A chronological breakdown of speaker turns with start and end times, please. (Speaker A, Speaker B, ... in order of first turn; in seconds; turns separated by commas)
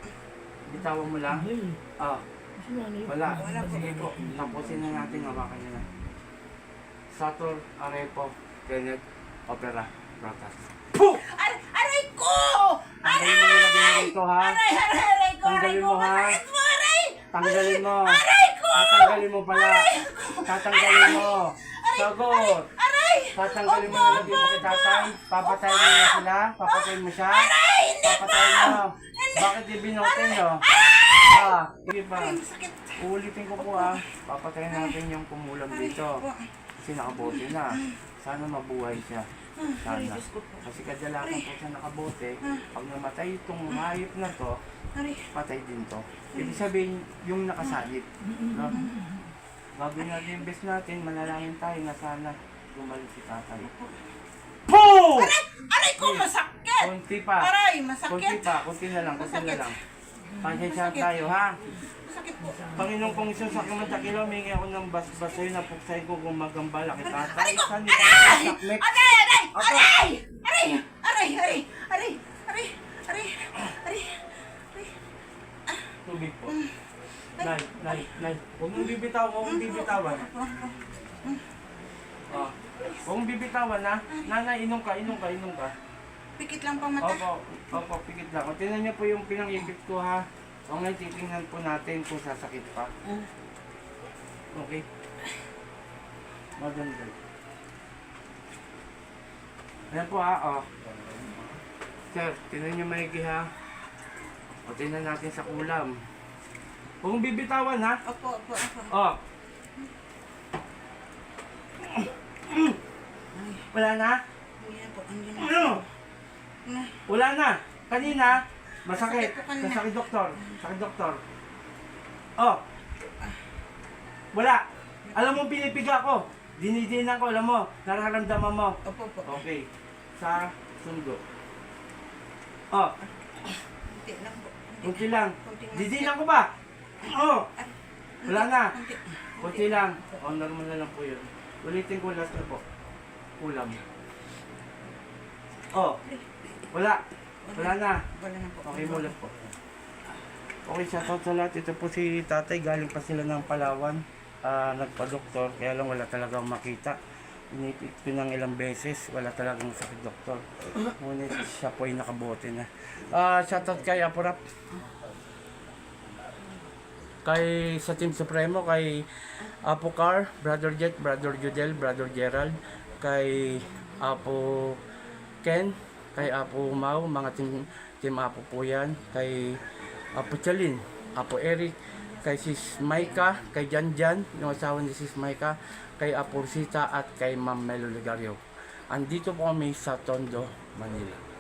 Speaker A: 0.7-2.2, Speaker B: 1.3-1.8, Speaker B: 2.6-5.9, Speaker A: 3.0-5.9, Speaker C: 3.4-4.1, Speaker A: 7.1-11.2, Speaker C: 11.1-31.6, Speaker A: 13.0-14.6, Speaker A: 15.4-16.4, Speaker A: 17.3-19.9, Speaker A: 20.5-22.7, Speaker A: 23.3-32.4, Speaker C: 32.1-33.0, Speaker A: 33.0-36.2, Speaker C: 33.6-34.0, Speaker C: 34.7-35.0, Speaker C: 35.7-36.5, Speaker A: 36.8-44.6, Speaker C: 37.2-37.9, Speaker C: 39.6-40.6, Speaker C: 41.2-41.5, Speaker C: 42.4-42.7, Speaker C: 44.9-45.3, Speaker A: 45.3-48.8, Speaker C: 46.3-46.6, Speaker B: 48.4-49.2, Speaker C: 48.7-49.0, Speaker A: 49.8-53.7, Speaker C: 50.0-50.5, Speaker C: 53.6-54.1, Speaker A: 54.7-55.4, Speaker C: 55.0-59.8, Speaker A: 56.0-56.3, Speaker A: 56.8-57.5, Speaker A: 58.1-59.8, Speaker B: 60.3-60.5, Speaker A: 60.4-61.6, Speaker C: 60.5-62.9, Speaker B: 62.4-64.2, Speaker A: 62.7-69.0, Speaker C: 63.6-64.2, Speaker C: 65.2-65.6, Speaker C: 67.0-75.0, Speaker A: 69.5-70.1, Speaker C: 75.7-75.9, Speaker A: 76.0-76.6, Speaker C: 76.5-76.8, Speaker C: 77.4-78.2, Speaker A: 77.4-80.3, Speaker C: 79.5-81.5, Speaker A: 82.3-85.7, Speaker C: 86.4-87.2, Speaker A: 87.0-92.9, Speaker A: 94.5-94.8, Speaker A: 96.6-97.2, Speaker A: 99.9-100.7, Speaker A: 102.1-103.5, Speaker A: 104.7-106.0, Speaker A: 107.0-108.0, Speaker C: 108.0-109.0, Speaker A: 108.9-109.2, Speaker A: 111.8-112.8, Speaker C: 113.3-113.7, Speaker A: 113.7-114.2, Speaker C: 114.6-115.9, Speaker A: 115.4-115.8, Speaker C: 116.7-117.0, Speaker A: 117.1-121.2, Speaker C: 118.9-120.6, Speaker A: 124.3-124.6, Speaker C: 125.1-125.4, Speaker A: 125.1-129.7, Speaker C: 128.8-129.4, Speaker A: 130.2-131.2, Speaker C: 133.9-136.1, Speaker A: 134.8-136.5, Speaker A: 137.0-137.5, Speaker C: 137.6-140.2, Speaker A: 138.2-138.8, Speaker A: 139.4-142.6, Speaker A: 143.4-143.8, Speaker A: 145.7-146.0, Speaker C: 146.0-146.5, Speaker A: 146.7-147.0, Speaker C: 147.4-149.2, Speaker A: 147.5-148.0, Speaker A: 148.6-149.5, Speaker A: 150.7-164.4, Speaker A: 167.2-174.8, Speaker A: 175.4-191.2